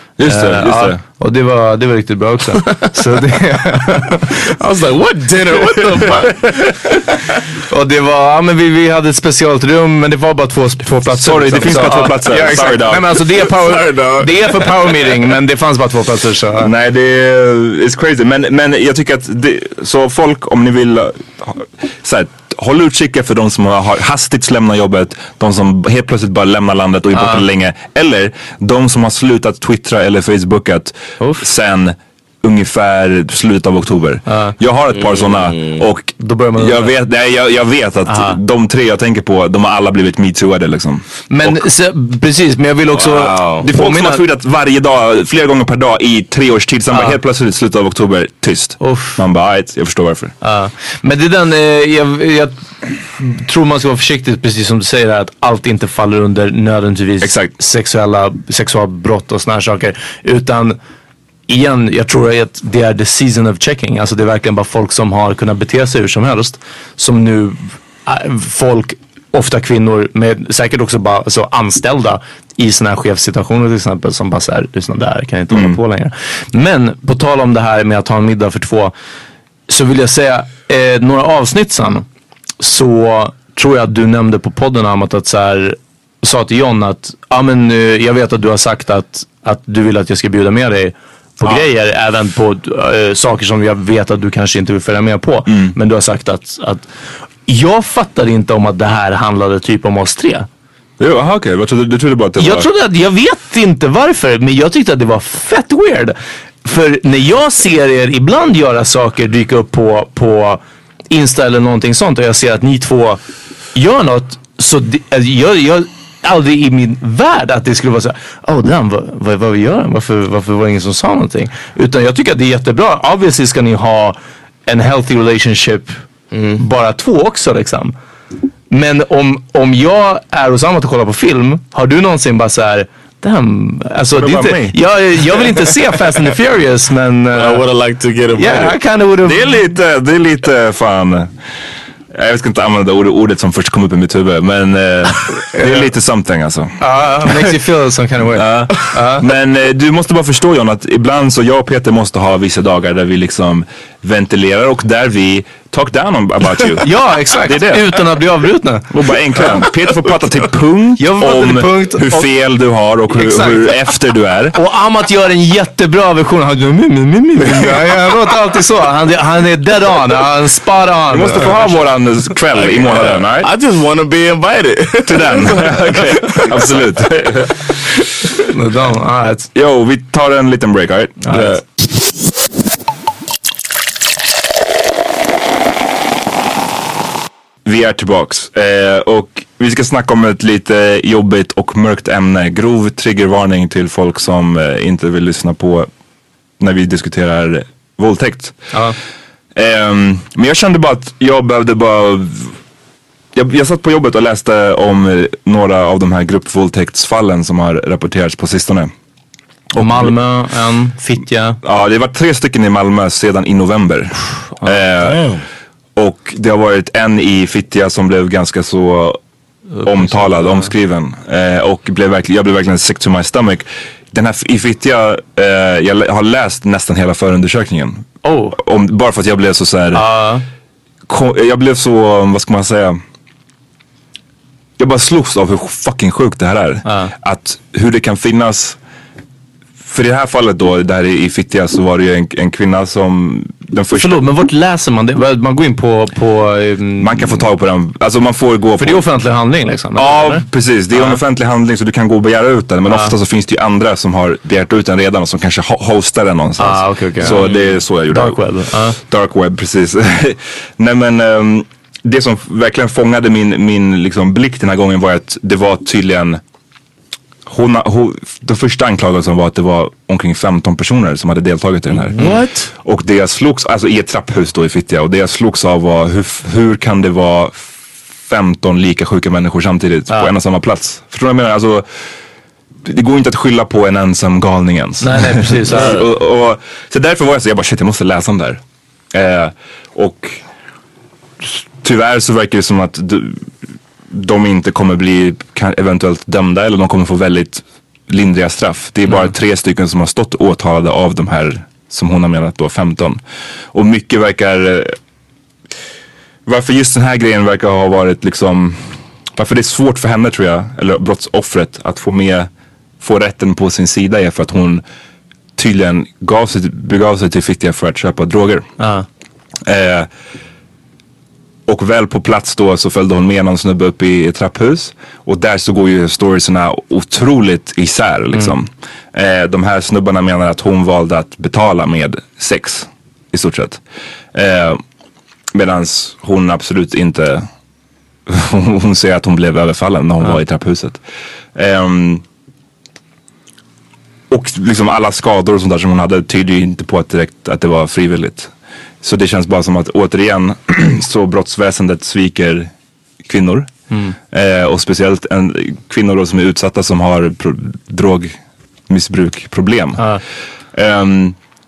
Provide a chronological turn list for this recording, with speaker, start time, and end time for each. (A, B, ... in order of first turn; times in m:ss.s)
0:00.2-0:01.0 A
0:00.2-0:04.3 B
0:04.6-0:06.8 C
0:07.7-0:16.7 B
0:11.1-0:13.2 A
0:13.5-0:15.1 C
0:16.6-0:41.6 A
0:27.1-0:27.4 B
0:34.3-0:34.5 B
0:34.9-0:35.8 C
0:36.2-0:36.9 B
0:38.0-0:38.4 B
0:41.3-0:44.2 B
0:42.9-0:43.7 C
0:43.6-0:50.3 A
0:46.9-0:47.2 B
0:48.8-0:49.2 B
0:50.4-0:52.5 B
0:53.2-1:00.8 B
0:57.2-0:57.5 A
1:01.5-1:18.9 B
1:15.5-1:15.8 A
1:19.7-1:22.0 B
1:22.6-1:36.8 B
1:35.5-1:35.7 A
1:37.5-1:40.5 B
1:41.0-1:42.7 A
1:42.4-1:50.6 B
1:51.1-1:53.2 B
1:53.7-2:05.9 B
2:06.3-2:06.6 C
2:06.6-2:07.9 B
2:08.7-2:17.6 B
2:14.1-2:14.8 A
2:17.3-2:18.8 C
2:18.4-2:19.6 B
2:19.2-2:21.3 A
2:22.1-2:27.5 A
2:25.5-2:25.9 B
2:26.8-2:29.2 B
2:28.3-2:38.0 A
2:36.8-2:38.9 B
2:38.9-2:44.6 A
2:41.0-2:42.3 B
2:43.1-2:43.7 B
2:44.5-2:51.8 B
2:51.1-2:53.5 A
2:52.6-2:53.2 B
2:52.8-2:56.8 C
2:55.0-2:57.7 A
2:58.4-2:59.5 B
2:59.5-3:01.4 A
3:01.2-3:01.6 B
3:01.3-3:01.6 C
3:07.6-3:15.9 A
3:16.6-3:18.6 A
3:19.5-3:22.5 A
3:23.3-3:28.9 A
3:29.7-3:30.1 A
3:29.8-3:31.6 B
3:31.6-3:35.3 A
3:35.0-3:35.4 C
3:36.0-3:39.2 A
3:39.7-3:40.7 B
3:39.8-3:50.0 A
3:48.2-3:48.6 B
3:49.9-3:50.4 B
3:51.1-3:53.0 A
3:54.8-3:58.8 A
3:56.9-3:57.1 B
3:59.8-4:04.2 A
4:03.9-4:07.4 B
4:07.0-4:09.0 A
4:08.8-4:11.2 B
4:10.0-4:26.4 A
4:16.6-4:17.4 B
4:17.3-4:17.8 C
4:18.1-4:19.0 B
4:27.4-4:32.2 A
4:32.2-4:32.7 C
4:32.8-4:41.9 A
4:42.8-4:48.6 A
4:45.0-4:46.0 B
4:45.7-4:46.0 C
4:49.1-4:50.4 A
4:51.4-4:53.5 A
4:54.1-5:03.2 A
5:03.7-5:05.0 A
5:06.4-5:12.5 A
5:13.0-5:14.8 A
5:15.6-5:18.7 A
5:18.8-5:19.0 B
5:19.6-5:20.1 A
5:21.7-5:33.8 A
5:34.3-5:34.8 A
5:35.5-5:37.5 A
5:38.3-5:41.0 A
5:41.5-5:42.2 A
5:44.3-5:52.7 A
5:53.2-5:53.7 A
5:54.3-5:58.4 A
5:58.9-6:00.1 A
6:00.0-6:00.2 B
6:00.7-6:01.4 A